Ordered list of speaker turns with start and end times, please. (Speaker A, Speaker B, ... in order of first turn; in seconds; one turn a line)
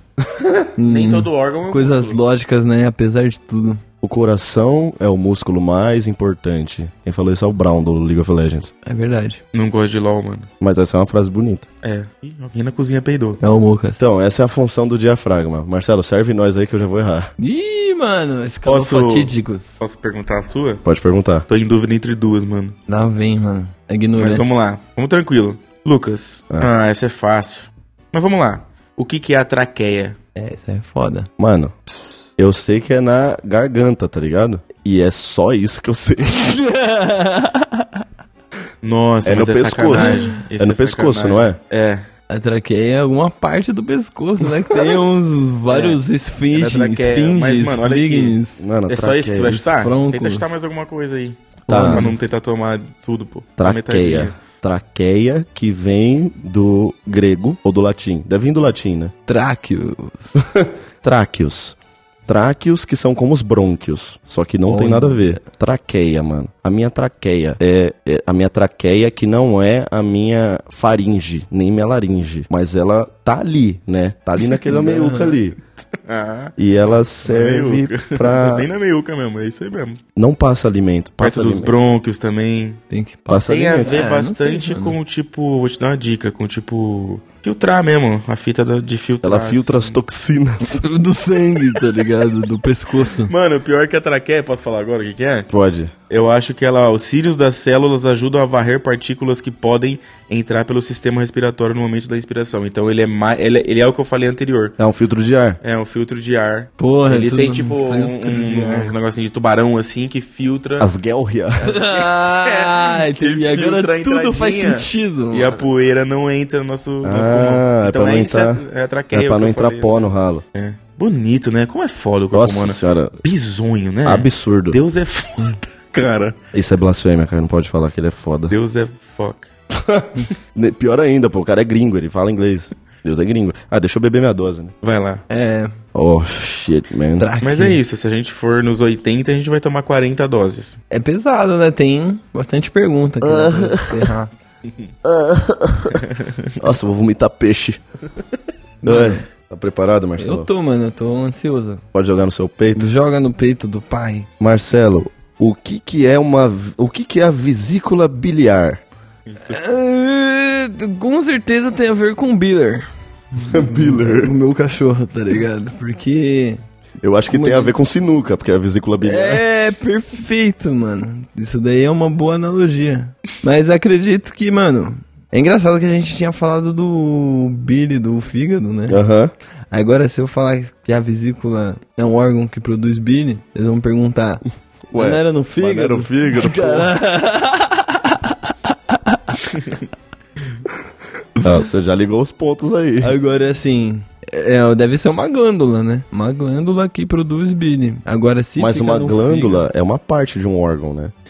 Speaker A: 0.2-0.7
Speaker B: 0.8-3.8
Speaker C: 0.9-2.2
Speaker A: 4.0-8.7
Speaker B: 8.8-9.4
Speaker C: 9.5-10.5
Speaker A: 10.6-11.7
Speaker C: 11.8-13.4
Speaker B: 13.4-14.0
Speaker A: 14.0-17.3
Speaker B: 17.4-19.7
Speaker C: 18.7-20.8
Speaker A: 20.9-21.5
Speaker C: 21.5-22.8
Speaker B: 22.9-24.5
Speaker C: 24.2-30.2
Speaker B: 30.4-31.3
Speaker A: 31.4-31.8
Speaker A: 32.4-36.5
Speaker B: 36.3-38.0
Speaker C: 38.8-42.0
Speaker A: 39.2-41.6
Speaker B: 40.0-40.3
Speaker B: 42.3-48.6
Speaker C: 45.7-46.0
Speaker C: 46.5-54.4
Speaker A: 48.6-49.6
Speaker B: 49.6-50.5
Speaker B: 51.7-52.2
Speaker A: 51.7-52.1
Speaker A: 53.6-59.1
Speaker B: 59.3-60.4
Speaker A: 60.4-61.8
Speaker A: 62.3-75.6
Speaker B: 64.7-65.4
Speaker B: 74.7-75.4
Speaker C: 76.1-76.5
Speaker A: 76.6-78.7
Speaker C: 77.2-80.0
Speaker A: 80.2-81.8
Speaker C: 81.2-82.8
Speaker B: 82.9-85.0
Speaker A: 83.3-84.0
Speaker C: 83.5-90.0
Speaker A: 89.2-90.8
Speaker B: 90.6-93.3
Speaker C: 93.3-95.5
Speaker A: 95.5-95.9
Speaker C: 96.1-104.8
Speaker A: 104.8-105.6
Speaker C: 105.6-110.9
Speaker B: 106.8-108.9
Speaker A: 110.8-111.7
Speaker B: 111.6-115.6
Speaker C: 111.6-126.4
Speaker A: 117.0-120.4
Speaker A: 122.3-123.2
Speaker A: 124.0-124.8
Speaker A: 126.5-128.5
Speaker C: 128.5-129.5
Speaker A: 129.7-134.7
Speaker C: 134.8-135.2
Speaker B: 135.3-135.7
Speaker A: 135.9-137.3
Speaker B: 137.2-137.8
Speaker C: 137.4-140.8
Speaker B: 140.9-144.3
Speaker A: 143.2-144.1
Speaker A: 145.1-146.0
Speaker C: 145.9-146.5
Speaker A: 146.6-147.8
Speaker B: 148.8-149.2
Speaker A: 148.8-150.5
Speaker B: 150.2-151.8
Speaker A: 151.9-152.9
Speaker B: 152.8-154.3
Speaker A: 154.4-158.8
Speaker C: 159.3-159.6
Speaker B: 159.4-166.6
Speaker A: 163.5-164.3
Speaker A: 167.0-169.4
Speaker B: 167.3-167.7
Speaker B: 169.0-179.0
Speaker A: 178.9-179.3
Speaker B: 179.7-184.4
Speaker A: 184.9-186.9
Speaker B: 184.9-189.4
Speaker A: 191.4-193.2
Speaker B: 193.0-199.7
Speaker A: 198.6-201.1